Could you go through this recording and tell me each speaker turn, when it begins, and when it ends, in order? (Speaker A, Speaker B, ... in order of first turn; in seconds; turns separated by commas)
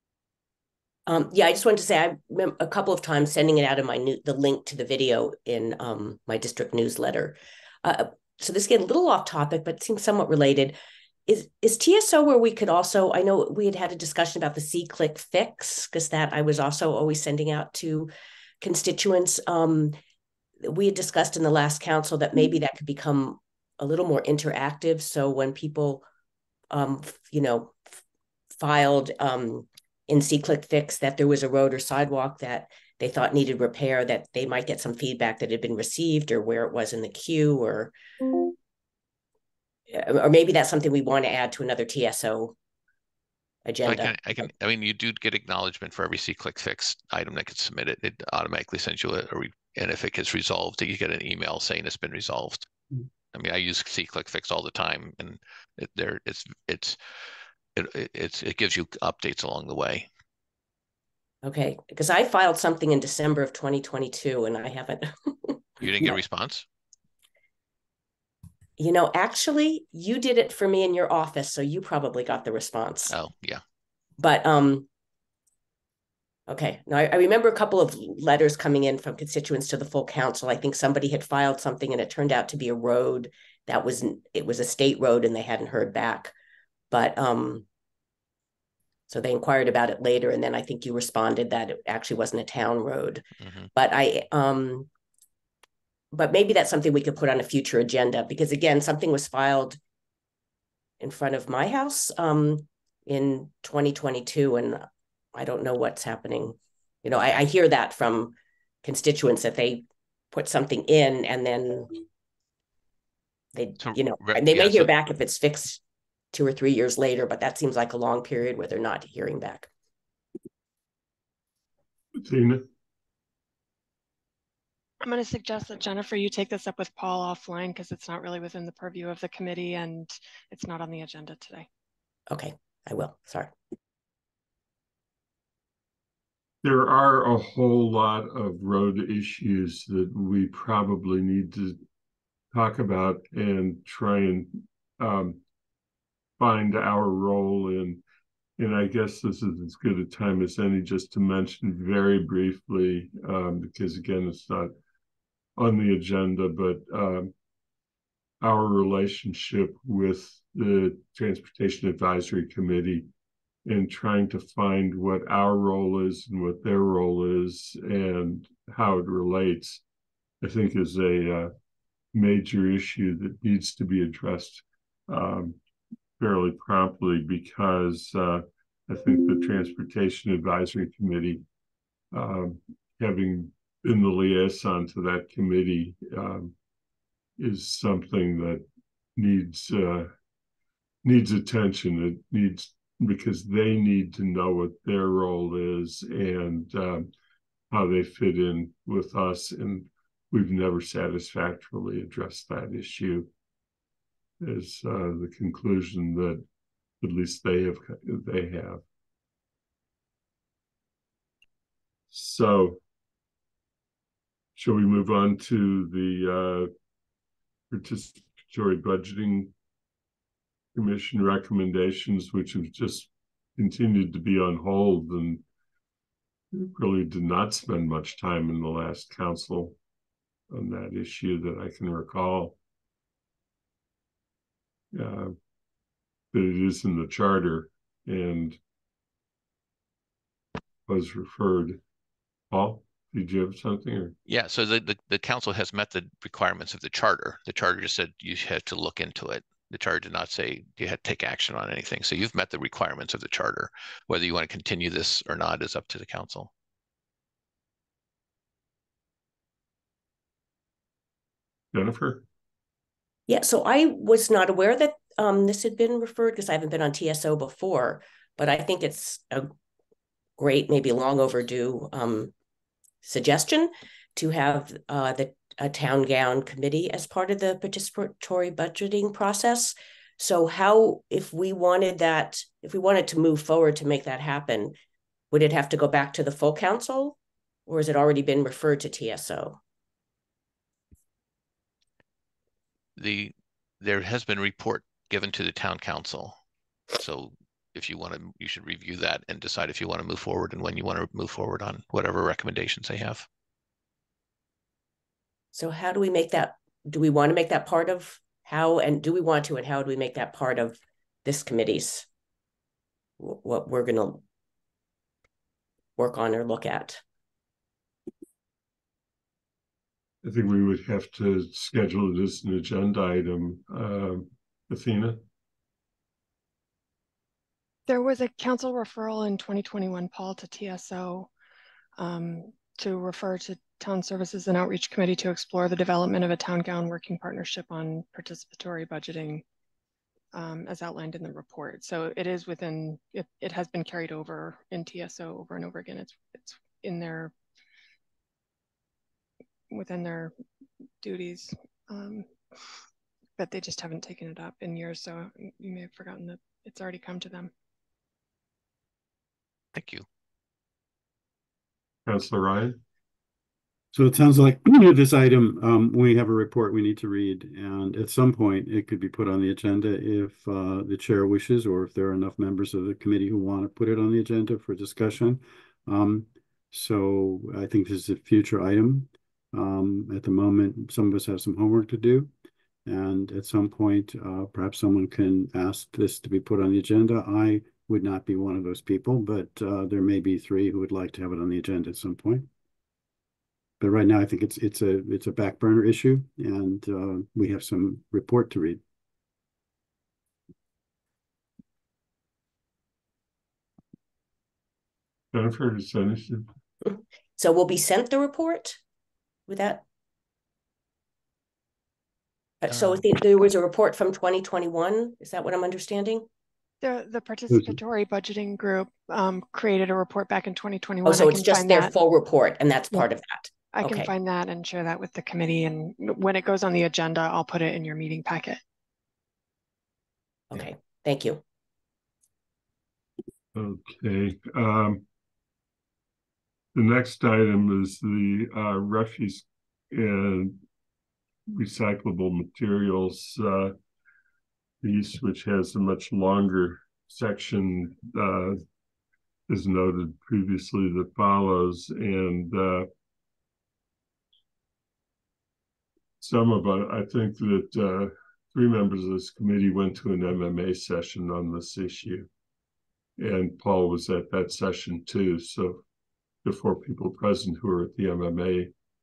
Speaker A: 1.1-10.8, Speaker A: 11.3-19.9, Speaker A: 20.6-26.0, Speaker A: 26.7-27.8, Speaker A: 28.6-37.9, Speaker A: 39.9-42.5, Speaker A: 43.6-44.5, Speaker B: 43.8-52.6, Speaker B: 53.3-57.0, Speaker B: 57.7-60.1, Speaker A: 61.4-66.2, Speaker B: 65.8-66.6, Speaker A: 68.8-73.1, Speaker B: 73.1-73.6, Speaker A: 74.2-74.9, Speaker A: 76.5-86.3, Speaker A: 86.9-87.6, Speaker A: 89.1-93.2, Speaker B: 93.4-93.7, Speaker A: 93.7-94.9, Speaker A: 96.1-99.8, Speaker A: 101.0-111.9, Speaker A: 113.5-115.8, Speaker B: 113.8-114.9, Speaker A: 116.3-119.7, Speaker C: 122.2-122.6, Speaker D: 125.0-131.7, Speaker A: 132.3-133.5, Speaker C: 136.6-141.8, Speaker C: 142.5-145.4, Speaker C: 146.4-148.0, Speaker C: 148.6-154.7, Speaker C: 155.6-157.3, Speaker C: 158.4-163.1, Speaker C: 163.7-169.8, Speaker C: 170.4-171.5, Speaker C: 172.1-175.6, Speaker C: 176.2-181.4, Speaker C: 182.1-186.5, Speaker C: 187.4-188.6, Speaker C: 189.2-190.1, Speaker C: 191.0-197.1, Speaker C: 197.7-203.3, Speaker C: 204.4-206.4, Speaker C: 207.0-208.8, Speaker C: 212.1-212.8, Speaker C: 214.6-216.7, Speaker C: 217.7-219.5, Speaker C: 220.7-225.4, Speaker C: 226.5-229.8, Speaker C: 230.5-232.6, Speaker C: 234.9-235.3, Speaker C: 236.3-238.6, Speaker C: 240.9-241.8, Speaker C: 242.5-244.1, Speaker B: 244.3-256.5, Speaker C: 261.7-262.2, Speaker A: 263.3-269.5, Speaker A: 270.4-272.3, Speaker A: 273.0-284.7, Speaker A: 285.3-289.6, Speaker B: 292.9-296.3, Speaker B: 296.9-303.2, Speaker A: 305.5-312.1, Speaker A: 313.2-314.2, Speaker A: 316.0-317.0, Speaker C: 320.2-325.2, Speaker D: 327.9-331.3, Speaker D: 332.0-339.4, Speaker D: 340.3-347.3, Speaker D: 349.7-350.3, Speaker D: 351.0-352.3, Speaker D: 353.4-357.5, Speaker B: 359.7-360.0, Speaker C: 362.1-362.7, Speaker E: 363.9-382.3, Speaker E: 382.9-392.5, Speaker E: 393.8-398.8, Speaker C: 405.3-406.4, Speaker A: 406.8-408.8, Speaker A: 409.5-409.8, Speaker A: 412.6-416.2, Speaker B: 412.7-413.0, Speaker D: 416.8-421.9, Speaker E: 417.5-417.8, Speaker A: 421.0-424.1, Speaker D: 423.7-428.6, Speaker A: 430.5-431.4, Speaker C: 433.5-435.0, Speaker C: 436.7-440.6, Speaker C: 441.5-443.7, Speaker C: 444.8-448.6, Speaker C: 449.5-452.9, Speaker C: 456.2-462.3, Speaker C: 463.2-465.8, Speaker C: 466.4-468.7